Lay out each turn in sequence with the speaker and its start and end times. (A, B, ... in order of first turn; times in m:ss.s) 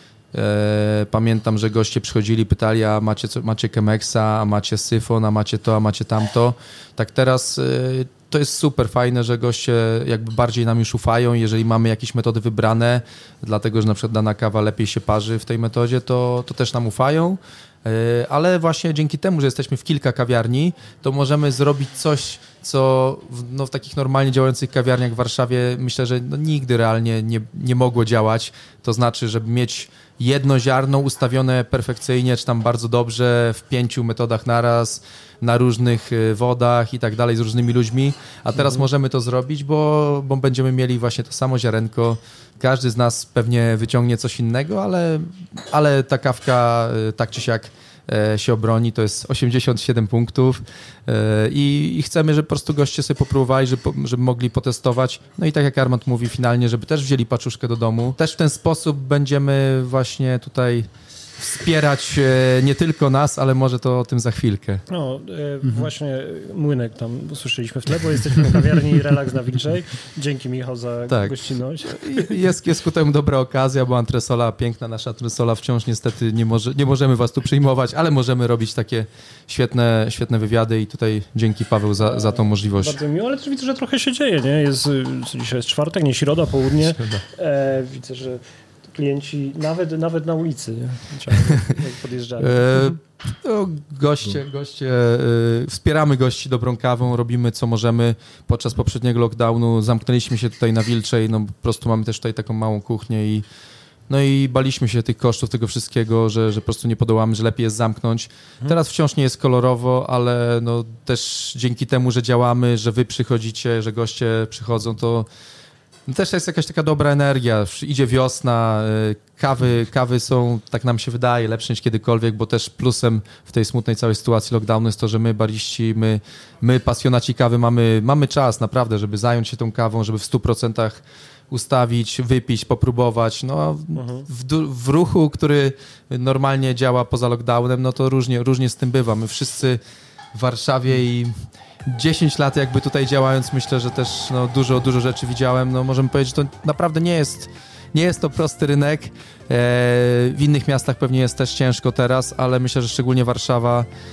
0:00.3-1:00.9 A
1:01.4-1:04.8 A
1:04.9-1:12.3 B
1:11.1-1:23.0 A
1:22.2-1:28.4 B
1:26.9-1:27.2 A
1:28.9-1:32.9 B
1:31.5-1:31.7 A
1:32.4-1:43.4 A
1:44.1-1:55.3 A
1:56.1-2:11.0 A
2:11.5-2:19.8 A
2:14.0-2:14.3 B
2:20.3-2:33.9 A